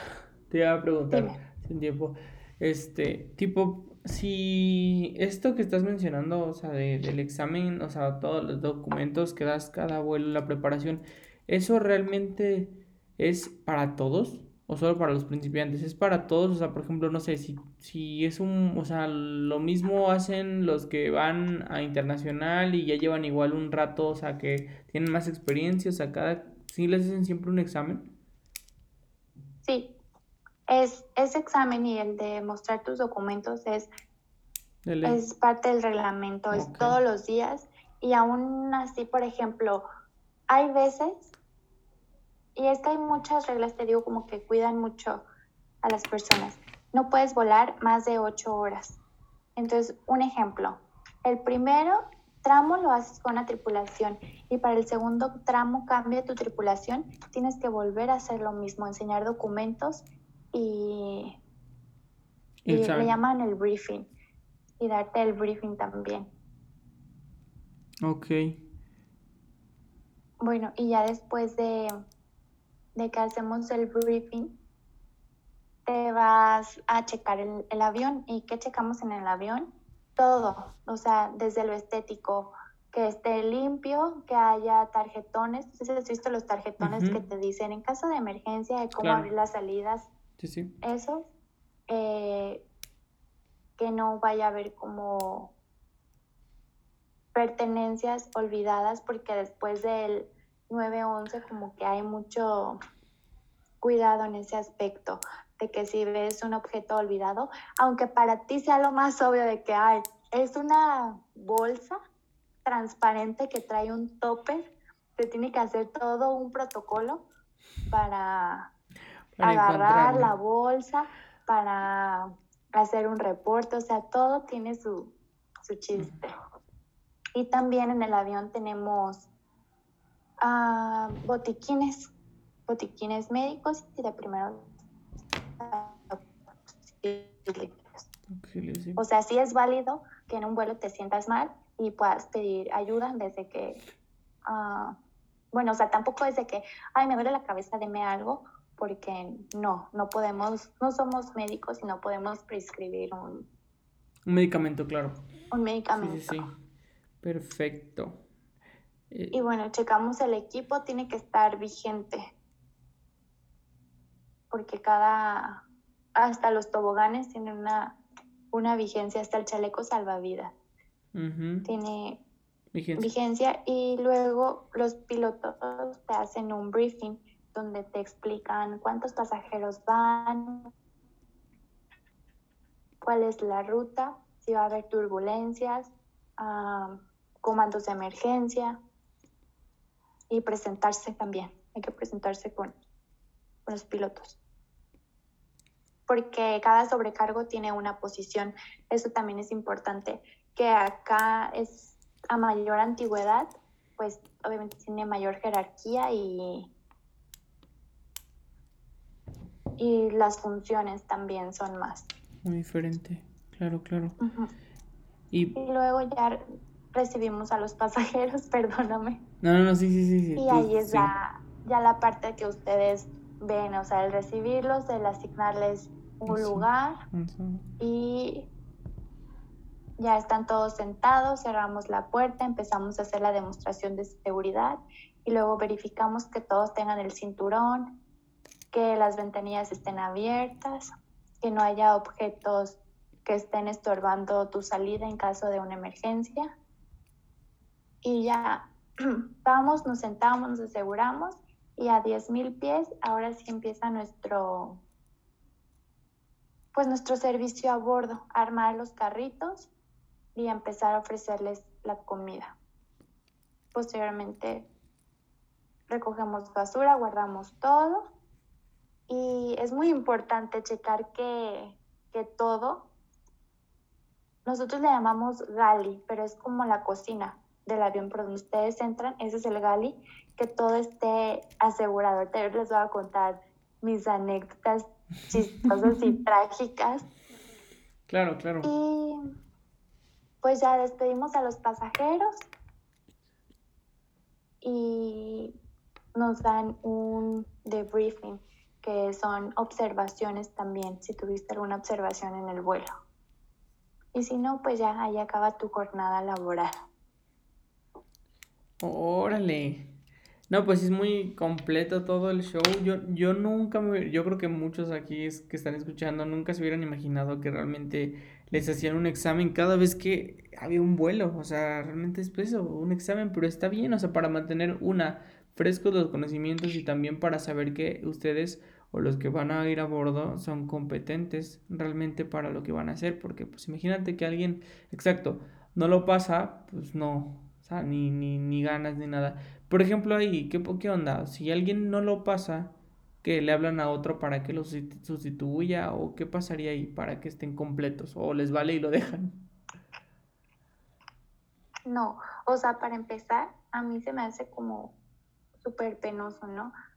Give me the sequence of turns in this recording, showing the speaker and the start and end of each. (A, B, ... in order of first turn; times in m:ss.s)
0:00.5-0:28.1 A
0:01.1-0:01.4 B
0:29.6-0:29.9 B
0:30.7-0:33.9 B
0:34.8-0:35.2 A
0:35.0-0:39.8 B
0:36.5-0:37.0 A
0:40.5-0:41.3 B
0:42.6-0:45.2 B
0:45.8-0:49.0 B
0:49.6-1:01.4 B
1:02.6-1:03.1 A
1:02.7-1:04.1 B
1:04.8-1:06.3 B
1:08.0-1:08.6 A
1:10.4-1:11.9 B
1:13.0-1:14.5 B
1:15.9-1:30.1 B
1:26.8-1:27.2 A
1:29.0-1:29.3 A
1:30.4-1:30.8 A
1:30.8-1:31.3 B
1:31.9-1:32.6 B
1:33.8-1:35.5 B
1:37.3-1:42.8 B
1:43.8-1:52.0 B
1:52.6-1:57.2 B
1:57.9-1:58.7 B
1:59.4-2:00.3 A
1:59.4-2:05.1 B
2:05.7-2:06.3 B
2:07.4-2:09.3 B
2:10.4-2:12.1 B
2:12.7-2:14.7 B
2:15.6-2:16.2 B
2:17.0-2:18.0 B
2:18.3-2:19.0 A
2:19.0-2:23.8 B
2:24.5-2:25.0 B
2:25.5-2:33.4 B
2:34.3-2:35.2 A
2:35.5-2:36.4 B
2:35.9-2:36.5 A
2:37.2-2:38.2 A
2:39.1-2:39.4 A
2:39.3-2:42.2 B
2:44.5-2:45.6 B
2:46.1-2:48.0 B
2:48.5-2:50.5 B
2:51.1-2:51.7 A
2:51.6-2:52.2 B
2:52.7-2:53.1 A
2:53.0-3:00.7 B
3:03.0-3:08.8 B
3:10.3-3:12.7 B
3:13.7-3:14.4 B
3:16.1-3:26.7 B
3:29.8-3:32.1 B
3:32.4-3:34.2 A
3:34.2-3:34.5 B
3:35.3-3:35.6 A
3:35.6-3:39.2 B
3:39.4-3:41.1 A
3:40.4-3:47.0 B
3:46.3-3:47.6 A
3:47.8-3:48.5 B
3:50.0-3:57.9 B
3:58.7-4:06.5 B
4:08.0-4:14.8 B
4:16.7-4:19.7 B
4:20.4-4:22.6 B
4:23.7-4:24.7 B
4:25.9-4:28.1 B
4:29.1-4:32.9 B
4:34.4-4:47.1 B
4:48.1-4:48.7 A
4:48.6-4:49.2 B
4:50.4-4:52.3 B
4:54.6-4:55.5 B
4:56.1-5:02.9 B
5:04.1-5:06.7 B
5:08.8-5:09.9 A
5:10.5-5:49.4 A
5:51.9-5:54.9 B
5:55.6-5:56.7 B